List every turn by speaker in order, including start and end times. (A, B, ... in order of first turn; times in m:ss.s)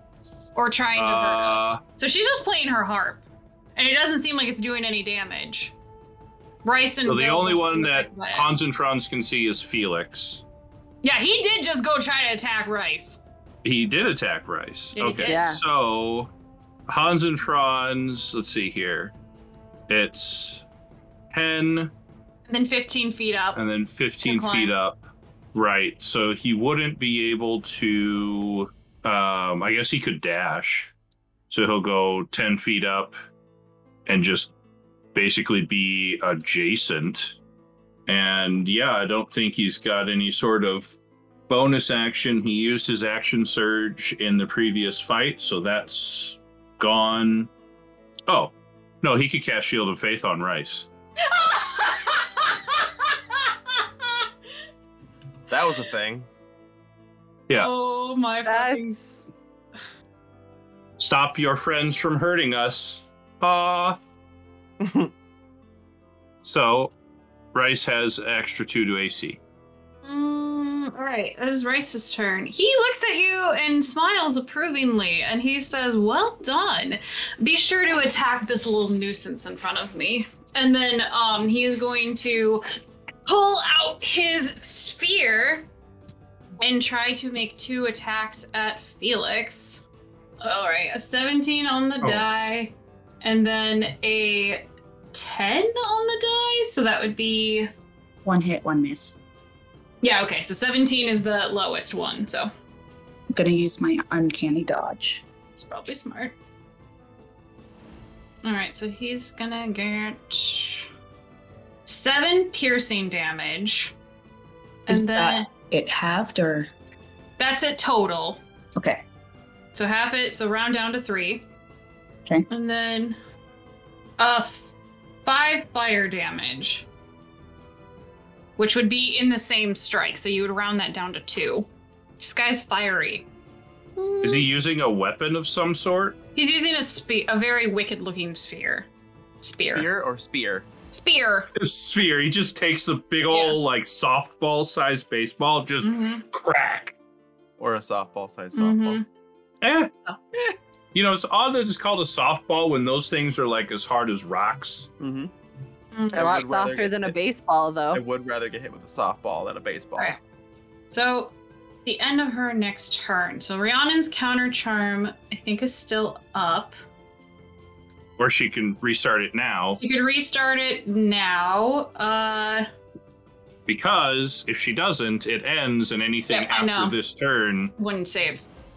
0:00.6-0:03.2 A
0:01.0-0:01.8 B
0:03.8-0:05.8 A
0:06.6-0:08.5 A
0:07.1-0:10.4 B
0:11.0-0:13.2 A
0:13.6-0:16.3 B
0:15.0-0:15.6 A
0:15.2-0:15.6 C
0:16.9-0:19.1 B
0:19.9-0:20.7 B
0:21.3-0:21.9 B
0:22.5-0:23.6 A
0:23.5-0:25.0 B
0:24.2-0:24.7 A
0:25.5-0:30.9 B
0:31.5-0:33.2 B
0:34.1-0:34.5 B
0:35.1-0:37.4 B
0:38.1-0:41.0 B
0:41.5-0:47.5 B
0:48.3-0:50.9 B
0:51.3-0:52.8 A
0:55.5-0:56.3 D
0:57.5-0:58.9 A
0:58.4-0:59.3 C
1:01.0-1:04.0 B
1:04.8-1:05.1 D
1:06.4-1:06.9 B
1:07.5-1:09.4 B
1:10.0-1:22.7 A
1:23.3-1:25.7 A
1:26.6-1:29.8 A
1:30.4-1:37.7 A
1:32.0-1:32.3 B
1:38.2-1:39.2 E
1:40.0-1:42.5 A
1:43.3-1:45.2 E
1:45.6-1:46.4 A
1:48.4-1:50.9 A
1:51.9-1:53.9 A
1:54.9-1:55.5 A
1:54.9-1:56.7 E
1:57.4-1:58.4 A
1:58.8-1:59.0 E
1:59.8-2:01.5 A
2:02.5-2:03.2 A
2:04.2-2:04.7 A
2:05.2-2:06.9 A
2:08.6-2:11.7 A
2:12.2-2:13.3 A
2:14.0-2:14.5 A
2:14.2-2:16.2 B
2:16.4-2:18.9 A
2:19.4-2:19.9 A
2:19.8-2:20.7 D
2:20.9-2:21.5 A
2:21.6-2:26.9 B
2:23.3-2:23.6 A
2:25.8-2:26.2 A
2:27.6-2:29.0 D
2:28.6-2:29.1 A
2:29.6-2:29.9 B
2:30.9-2:34.9 B
2:35.0-2:35.3 D
2:36.0-2:36.4 A
2:36.1-2:38.0 C
2:36.1-2:37.2 D
2:37.9-2:40.2 D
2:40.9-2:41.3 A
2:41.8-2:46.8 A
2:48.2-2:49.8 B
2:49.8-2:52.7 A
2:53.7-2:57.7 B
2:56.3-2:57.0 A
2:57.8-2:58.4 A